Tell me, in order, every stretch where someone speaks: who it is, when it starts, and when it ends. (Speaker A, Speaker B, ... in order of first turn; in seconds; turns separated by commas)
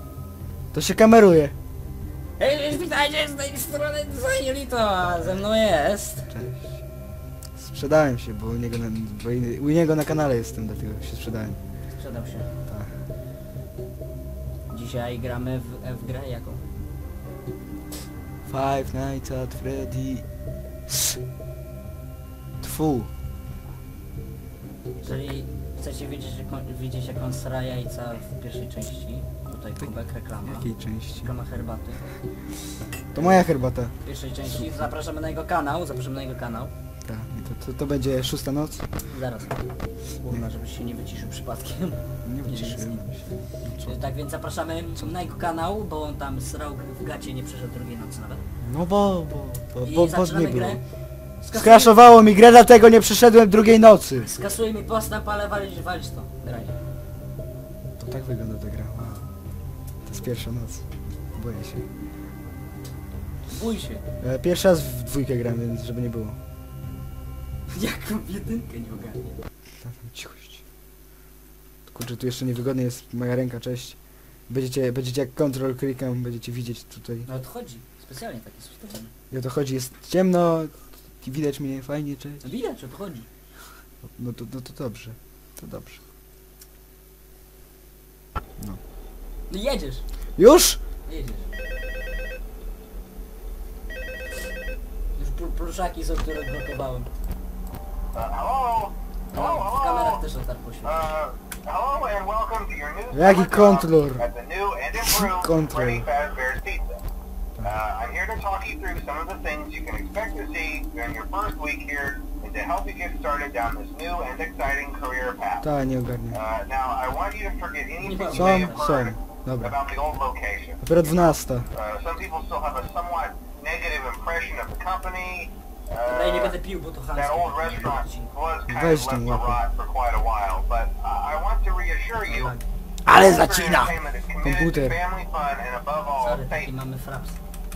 Speaker A: 0.7-1.5, Speaker B: 2.4-6.3, Speaker A: 6.3-6.8, Speaker A: 7.6-11.6, Speaker B: 11.9-12.5, Speaker B: 14.7-16.6, Speaker A: 18.4-20.2, Speaker A: 20.9-21.1, Speaker A: 22.6-23.1, Speaker B: 25.0-30.7, Speaker A: 29.8-31.3, Speaker B: 31.2-32.1, Speaker A: 33.1-33.9, Speaker B: 34.0-36.7, Speaker A: 34.5-34.9, Speaker A: 37.0-38.9, Speaker B: 39.1-39.6, Speaker B: 40.1-43.0, Speaker A: 42.2-44.0, Speaker B: 43.8-48.4, Speaker A: 48.6-50.8, Speaker B: 49.8-50.8, Speaker B: 51.4-52.0, Speaker A: 51.5-54.3, Speaker B: 54.2-56.8, Speaker A: 58.0-59.3, Speaker A: 60.0-61.9, Speaker B: 63.5-64.0, Speaker A: 64.2-66.4, Speaker B: 67.7-69.4, Speaker A: 69.8-70.6, Speaker A: 71.9-74.0, Speaker A: 74.5-77.3, Speaker B: 77.2-79.1, Speaker A: 79.3-82.4, Speaker B: 82.4-83.3, Speaker A: 84.2-86.0, Speaker B: 89.5-90.0, Speaker A: 90.4-90.8, Speaker B: 91.0-91.5, Speaker B: 95.2-97.1, Speaker C: 98.1-100.2, Speaker B: 99.3-101.1, Speaker C: 100.8-107.0, Speaker A: 103.1-104.3, Speaker A: 105.0-106.1, Speaker C: 107.6-115.7, Speaker A: 115.6-116.4, Speaker C: 116.3-126.6, Speaker B: 118.0-118.8, Speaker A: 118.3-119.8, Speaker A: 120.8-121.7, Speaker B: 126.0-128.3, Speaker C: 127.1-132.5, Speaker A: 128.7-129.6, Speaker B: 132.2-132.7, Speaker A: 133.1-135.0, Speaker C: 133.1-136.7, Speaker B: 136.2-137.4